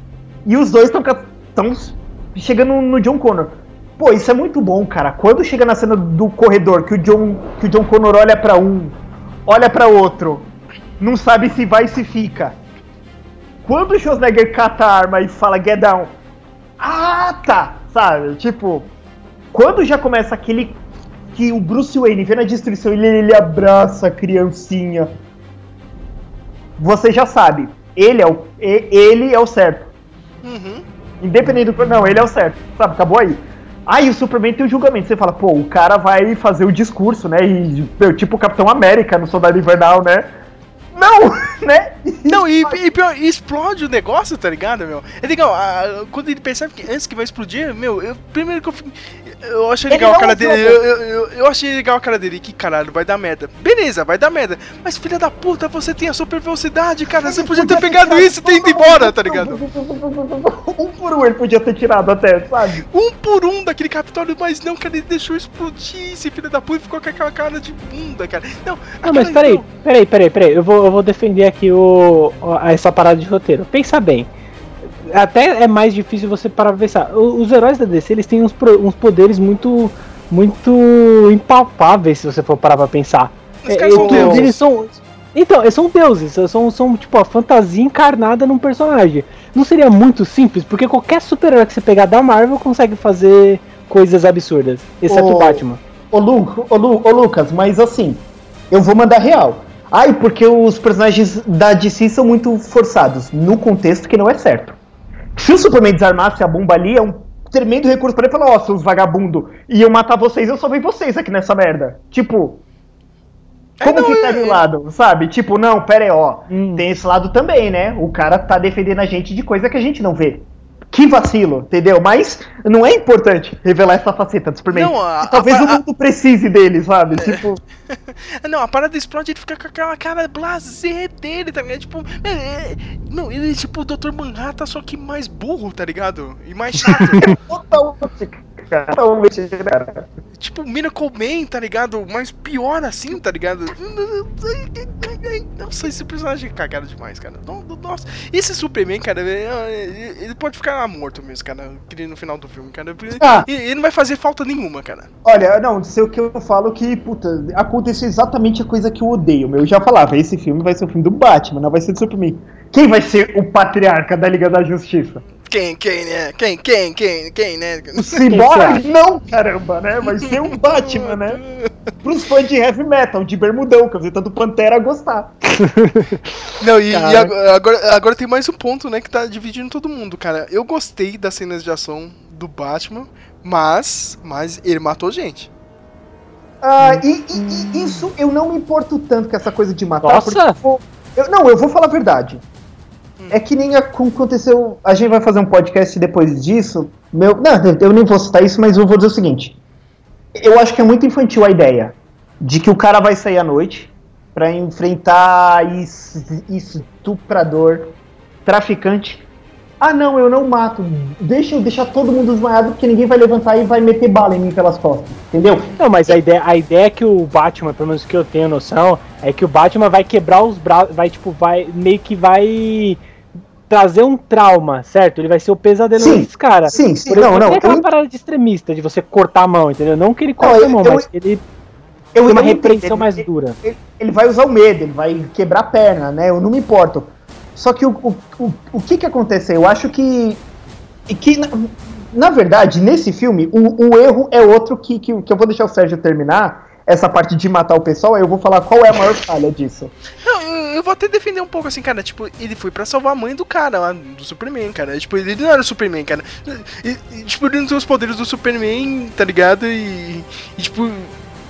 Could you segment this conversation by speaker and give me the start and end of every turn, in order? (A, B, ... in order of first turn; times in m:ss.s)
0:00.5-0:12.6 A
0:13.6-0:16.1 A
0:16.8-0:18.9 A
0:19.5-0:20.8 A
0:21.4-0:25.1 A
0:26.8-0:29.9 A
0:30.4-0:30.8 B
0:31.2-0:40.3 A
0:40.9-0:42.8 A
0:42.3-0:59.6 B
0:49.9-0:50.8 A
0:57.2-1:02.8 A
1:02.9-1:09.7 B
1:09.0-1:14.3 C
1:15.0-1:35.8 C
1:23.6-1:24.5 B
1:23.9-1:24.5 A
1:35.0-1:44.8 A
1:45.4-1:52.6 A
1:53.8-1:54.6 B
1:53.8-2:07.6 A
1:56.5-1:56.8 C
2:04.7-2:05.8 B
2:07.2-2:07.4 B
2:08.4-2:17.4 B
2:16.8-2:20.1 A
2:20.4-2:35.1 B
2:33.2-2:33.5 A
2:35.2-2:45.2 A
2:45.4-2:48.2 B
2:48.0-2:51.4 A
2:48.3-2:48.8 C
2:50.2-2:51.7 B
2:52.0-2:55.3 A
2:55.6-2:56.3 C
2:56.6-3:05.5 B
2:56.9-2:57.3 C
3:06.6-3:12.4 A
3:06.8-3:07.9 C
3:10.0-3:10.6 C
3:13.3-3:19.6 A
3:20.4-3:29.2 A
3:29.8-3:35.7 A
3:35.8-3:43.0 C
3:43.7-3:51.4 C
3:46.0-3:47.9 A
3:50.4-3:51.1 A
3:52.2-4:00.4 A
3:52.3-3:53.6 C
4:01.1-4:09.9 A
4:10.2-4:21.1 B